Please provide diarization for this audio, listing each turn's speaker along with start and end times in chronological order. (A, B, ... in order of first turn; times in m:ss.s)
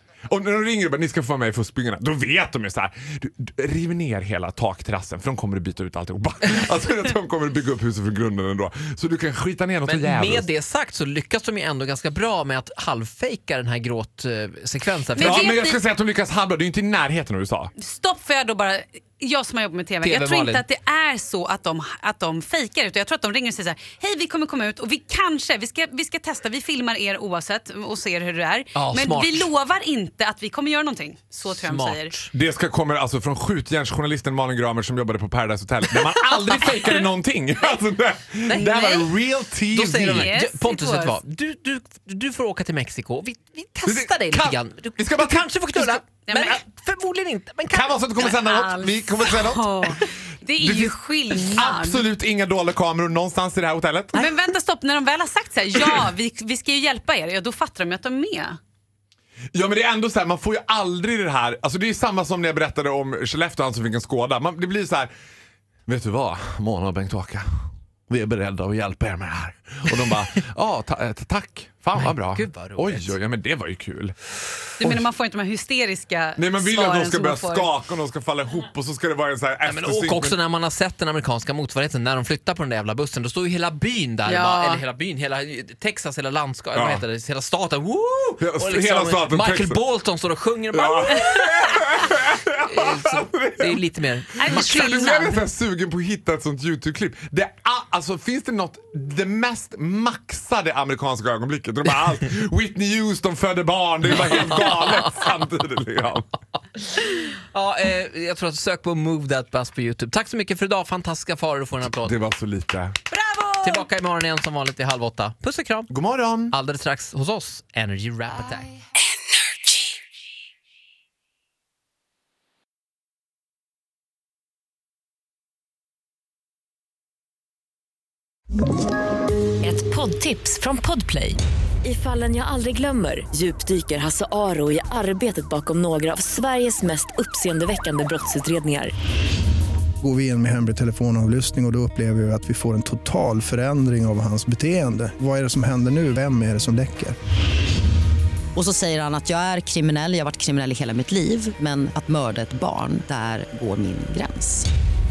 0:00.3-0:10.5 A
0:09.8-0:15.5 B
0:15.1-0:15.8 C
0:15.2-0:17.7 A
0:17.8-0:32.1 C
0:20.0-0:20.6 B
0:28.7-0:29.5 B
0:31.4-0:32.3 B
0:32.3-0:40.3 A
0:38.5-0:39.1 C
0:39.7-0:48.3 B
0:39.9-0:41.2 C
0:43.8-0:46.6 A
0:46.3-0:46.6 C
0:47.7-0:54.3 A
0:48.2-0:52.0 C
0:54.1-0:58.6 C
0:55.7-0:56.1 A
0:59.5-1:05.1 A
1:05.9-1:07.4 A
1:08.1-1:14.1 A
1:11.9-1:13.2 B
1:14.8-1:17.7 C
1:14.8-1:15.0 A
1:16.4-1:20.4 A
1:19.6-1:31.6 B
1:24.2-1:24.8 C
1:26.7-1:27.0 A
1:28.4-1:29.8 A
1:30.7-1:33.8 A
1:32.5-1:35.0 B
1:34.4-1:35.4 C
1:34.4-1:46.3 A
1:44.2-1:45.1 B
1:47.0-1:52.1 B
1:51.9-1:53.0 A
1:53.1-1:53.8 C
1:53.6-1:55.9 B
1:55.9-1:56.5 A
1:56.5-1:58.7 B
2:09.6-2:18.9 D
2:20.0-2:27.2 E
2:28.5-2:34.7 F